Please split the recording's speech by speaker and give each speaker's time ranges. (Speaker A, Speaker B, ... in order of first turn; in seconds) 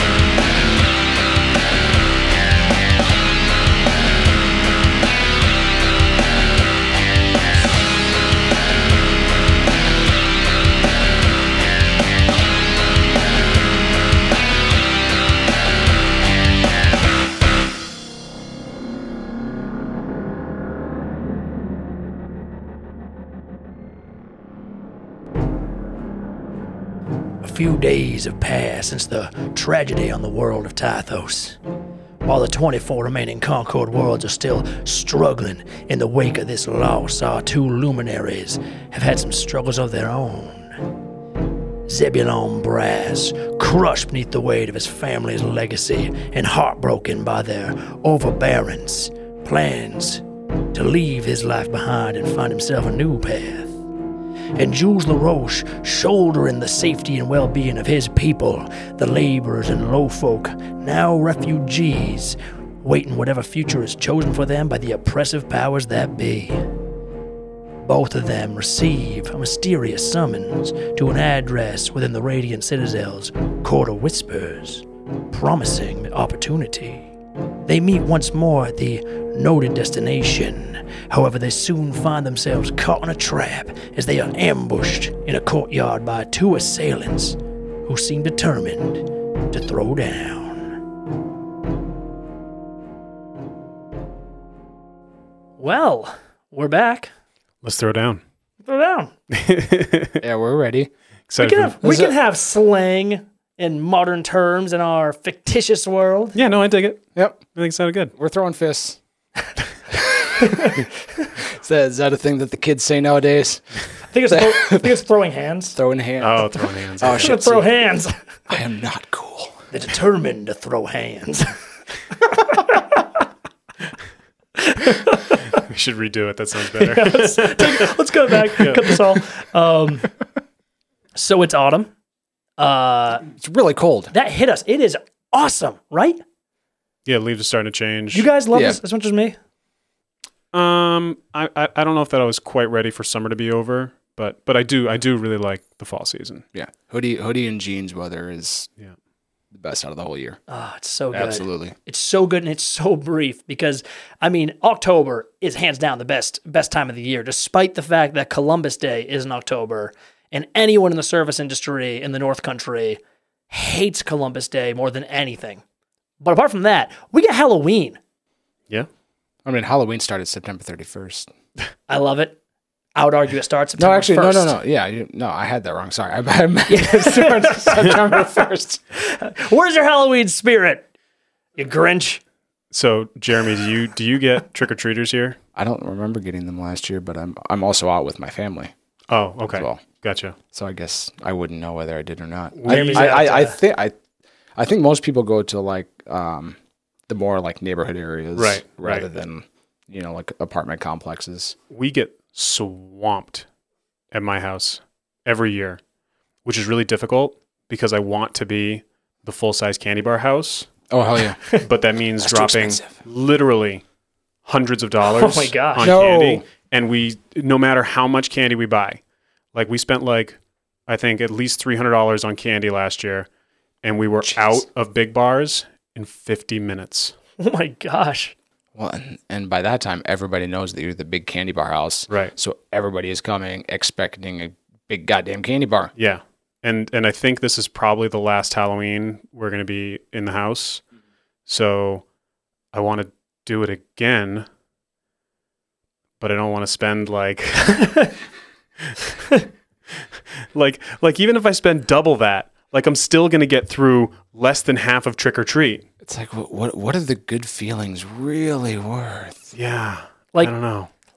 Speaker A: 27.4-31.6, 32.2-40.8, 41.9-53.8, 54.5-66.6, 67.8-77.1, 77.7-90.8, 95.6-97.1, 98.6-99.1, 101.4-106.4, 110.4-111.3, 114.1-115.8, 117.2-118.1, 119.7-121.5, 122.2-123.0, 124.6-125.6, 126.7-130.1, 131.2-131.9, 132.6-133.2, 134.1-136.2, 138.1-139.4, 150.5-163.0, 163.5-165.6, 166.2-168.0, 171.9-172.4, 172.9-174.5, 176.7-178.4, 178.9-180.9, 181.6-182.2, 192.7-193.6, 215.0-215.9, 227.4-228.3, 247.8-248.1
Speaker B: 97.6-98.2, 99.3-100.2, 101.3-101.8, 106.3-108.1, 116.2-117.3, 125.5-127.9, 128.4-129.0, 137.1-138.3, 140.5-146.4, 182.7-185.4, 189.1-190.3, 192.6-193.2, 198.3-199.1, 201.7-203.4, 204.1-205.8, 206.4-210.7, 211.6-213.8, 214.4-219.0, 219.5-223.3, 223.8-227.1, 236.0-240.8, 241.5-242.0, 242.7-244.4, 246.2-248.1, 250.5-255.8, 259.5-260.9
Speaker C: 100.2-100.9, 101.8-102.2, 107.1-107.4, 108.2-109.0, 109.9-110.8, 111.3-113.6, 114.3-114.9, 115.7-117.7, 118.5-119.7, 133.3-134.1, 138.5-138.8, 146.5-148.7, 149.5-150.4, 151.1-151.7, 169.4-171.3, 173.8-178.8, 185.6-188.7, 189.5-189.8, 190.5-193.9, 194.6-196.6, 197.1-201.6, 210.9-211.4, 212.2-213.0, 215.8-216.5, 224.2-224.6, 228.7-235.9, 256.0-259.5